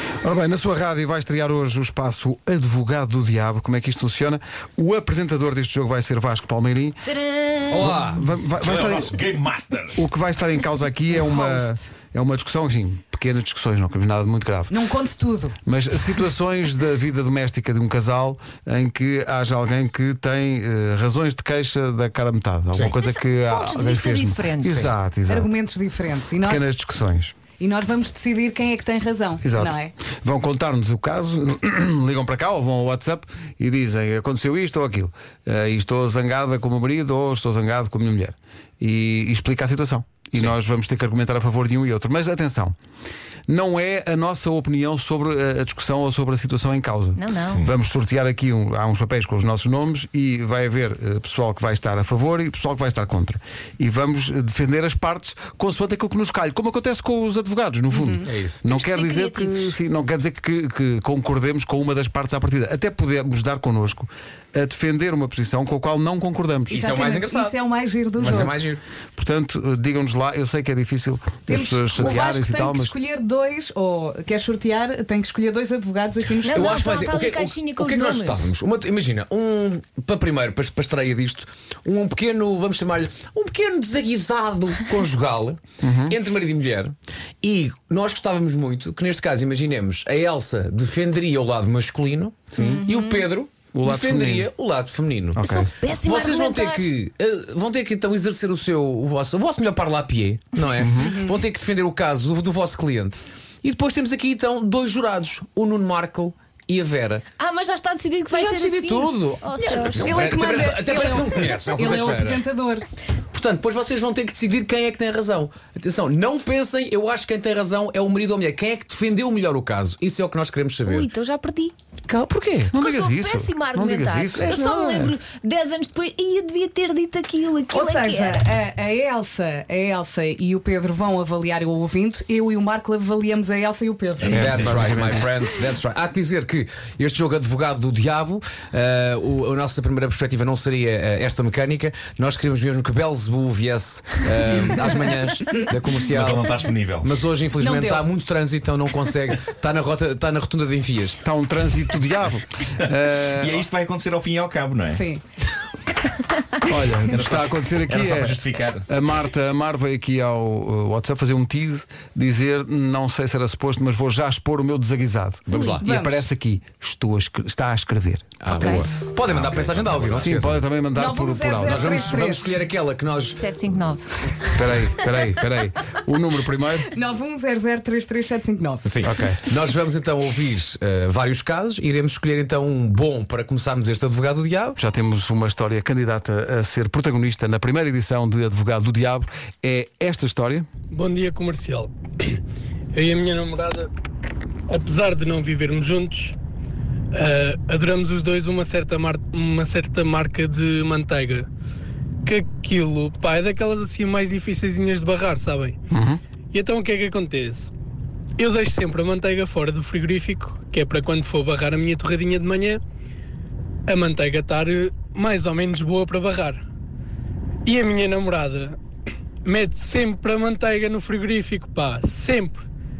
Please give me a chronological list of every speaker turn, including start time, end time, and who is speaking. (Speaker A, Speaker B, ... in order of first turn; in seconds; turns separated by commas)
Speaker A: 0.2-7.1, Speaker B: 7.0-8.0, Speaker C: 7.7-8.2, Speaker A: 7.8-9.2, Speaker D: 8.6-10.0, Speaker A: 9.9-14.8, Speaker E: 11.1-11.8, Speaker E: 14.7-15.6, Speaker A: 15.6-25.5, Speaker B: 23.1-24.9, Speaker E: 25.3-26.6, Speaker A: 26.4-27.3, Speaker E: 27.6-29.9, Speaker A: 29.4-42.7, Speaker A: 43.5-66.8, Speaker B: 47.2-47.6, Speaker E: 57.9-58.3, Speaker C: 58.2-58.6, Speaker B: 58.7-59.7, Speaker E: 66.7-68.5, Speaker C: 66.7-67.6, Speaker C: 68.2-68.8, Speaker A: 69.2-72.9, Speaker E: 71.5-76.8, Speaker B: 76.4-78.5, Speaker C: 76.5-107.3, Speaker A: 85.8-86.2, Speaker A: 92.5-92.8, Speaker B: 92.6-93.3, Speaker A: 93.7-94.5, Speaker A: 95.3-95.7, Speaker B: 95.8-96.9, Speaker A: 100.7-101.2, Speaker B: 107.4-110.9, Speaker C: 108.3-112.4, Speaker E: 109.6-112.9, Speaker C: 113.3-121.1, Speaker B: 120.8-121.7, Speaker A: 122.1-125.1, Speaker B: 122.7-128.4, Speaker E: 127.7-134.6, Speaker D: 134.2-135.2, Speaker A: 134.3-135.3, Speaker C: 134.3-151.2, Speaker D: 146.0-147.1, Speaker E: 147.6-148.1, Speaker A: 151.2-153.6, Speaker D: 153.4-155.0, Speaker E: 154.9-155.2, Speaker A: 156.6-168.9, Speaker D: 157.1-158.9, Speaker C: 165.5-165.8, Speaker B: 165.5-165.8, Speaker E: 165.8-166.3, Speaker C: 168.4-170.7, Speaker B: 168.5-168.9, Speaker A: 170.1-172.0, Speaker E: 170.9-172.5, Speaker C: 171.6-173.4, Speaker B: 173.3-174.0, Speaker A: 174.5-176.9, Speaker E: 176.9-178.9, Speaker C: 178.8-184.8, Speaker A: 179.0-179.4, Speaker A: 184.8-190.7, Speaker F: 190.9-192.4, Speaker F: 192.9-193.9, Speaker F: 194.7-196.3, Speaker F: 197.1-201.5, Speaker F: 202.2-205.8, Speaker A: 205.9-206.2, Speaker F: 206.5-207.7, Speaker F: 208.4-212.8, Speaker F: 213.9-216.6, Speaker F: 217.7-218.8, Speaker F: 219.4-222.6